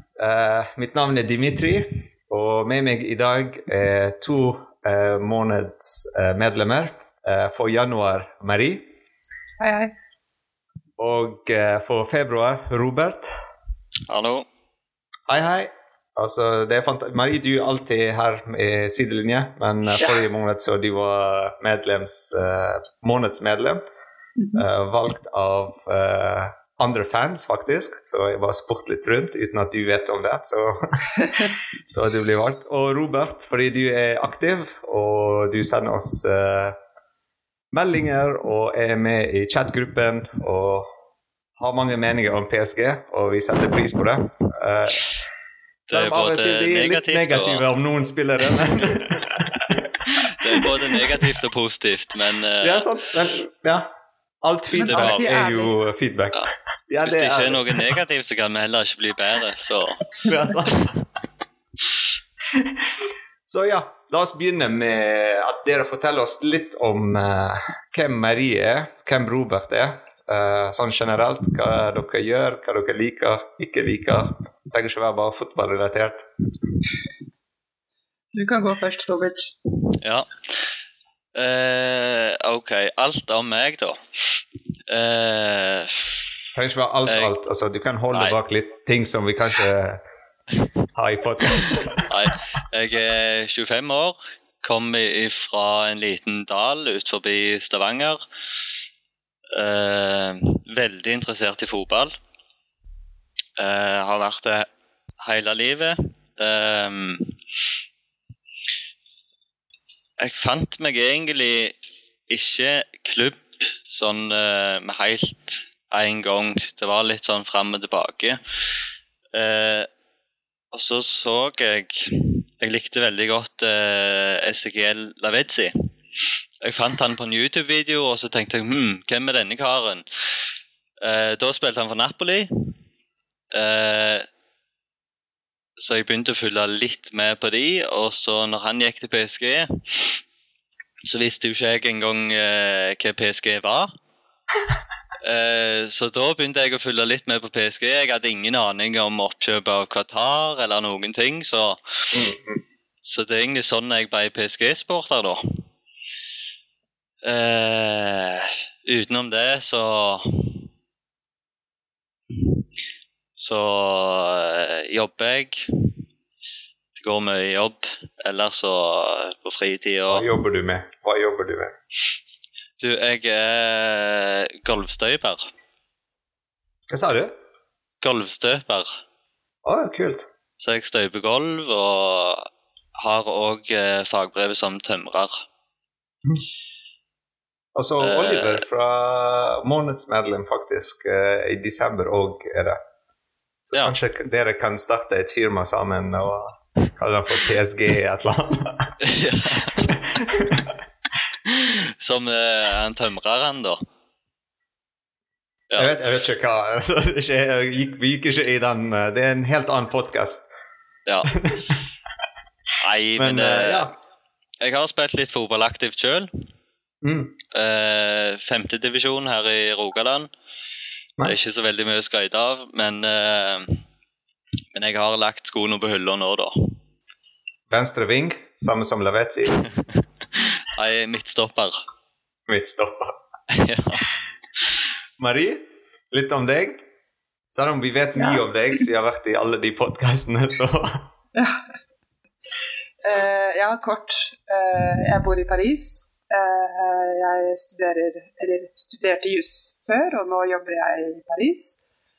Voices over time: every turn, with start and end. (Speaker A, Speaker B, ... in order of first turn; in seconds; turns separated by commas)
Speaker A: 0.2-8.9, Speaker B: 9.6-9.9, Speaker A: 11.0-13.3, Speaker C: 14.1-14.5, Speaker A: 15.3-23.8, Speaker B: 24.4-24.6, Speaker A: 24.5-36.8, Speaker A: 37.7-40.9, Speaker A: 41.6-45.1, Speaker C: 45.9-47.6, Speaker A: 45.9-51.3, Speaker C: 48.5-49.0, Speaker C: 50.1-52.9, Speaker A: 52.6-53.9, Speaker A: 54.4-58.0, Speaker B: 54.7-55.7, Speaker C: 54.8-55.2, Speaker C: 57.0-60.1, Speaker A: 60.2-61.0, Speaker A: 62.5-76.2, Speaker B: 78.3-79.5, Speaker C: 80.0-80.4, Speaker C: 81.3-84.3, Speaker C: 84.9-86.2, Speaker A: 86.5-90.0, Speaker C: 87.0-87.3, Speaker C: 88.1-88.3, Speaker A: 90.9-92.1, Speaker C: 91.6-98.2, Speaker C: 99.5-102.1, Speaker C: 103.6-104.7, Speaker C: 105.2-107.4, Speaker C: 110.2-111.8, Speaker C: 112.3-118.4, Speaker C: 119.3-119.9, Speaker C: 120.7-130.0, Speaker C: 131.0-132.5, Speaker C: 133.5-134.2, Speaker C: 135.8-140.2, Speaker C: 141.0-143.9, Speaker C: 145.2-152.3, Speaker A: 152.1-152.6, Speaker C: 153.0-155.4, Speaker C: 157.2-160.6, Speaker C: 163.4-165.7, Speaker C: 166.9-170.3, Speaker A: 170.1-171.7, Speaker C: 172.8-175.5, Speaker A: 176.9-177.3, Speaker C: 178.0-178.9, Speaker A: 179.6-180.3, Speaker C: 180.6-185.4, Speaker A: 187.7-192.8, Speaker C: 188.0-188.6, Speaker A: 193.6-198.9, Speaker C: 199.0-200.0, Speaker A: 199.7-200.8, Speaker C: 201.5-203.8, Speaker A: 205.8-210.5, Speaker C: 211.1-211.4, Speaker A: 211.3-211.8, Speaker C: 212.8-213.9, Speaker A: 213.2-213.9, Speaker C: 214.6-216.3, Speaker A: 217.0-217.4, Speaker C: 217.5-220.3, Speaker C: 221.2-223.8, Speaker C: 224.7-226.8, Speaker A: 227.7-229.7, Speaker C: 230.3-231.8, Speaker A: 232.5-233.2, Speaker C: 233.5-234.1, Speaker A: 235.2-236.8, Speaker A: 237.5-241.1, Speaker B: 238.2-238.4, Speaker B: 241.3-241.6, Speaker B: 243.0-251.8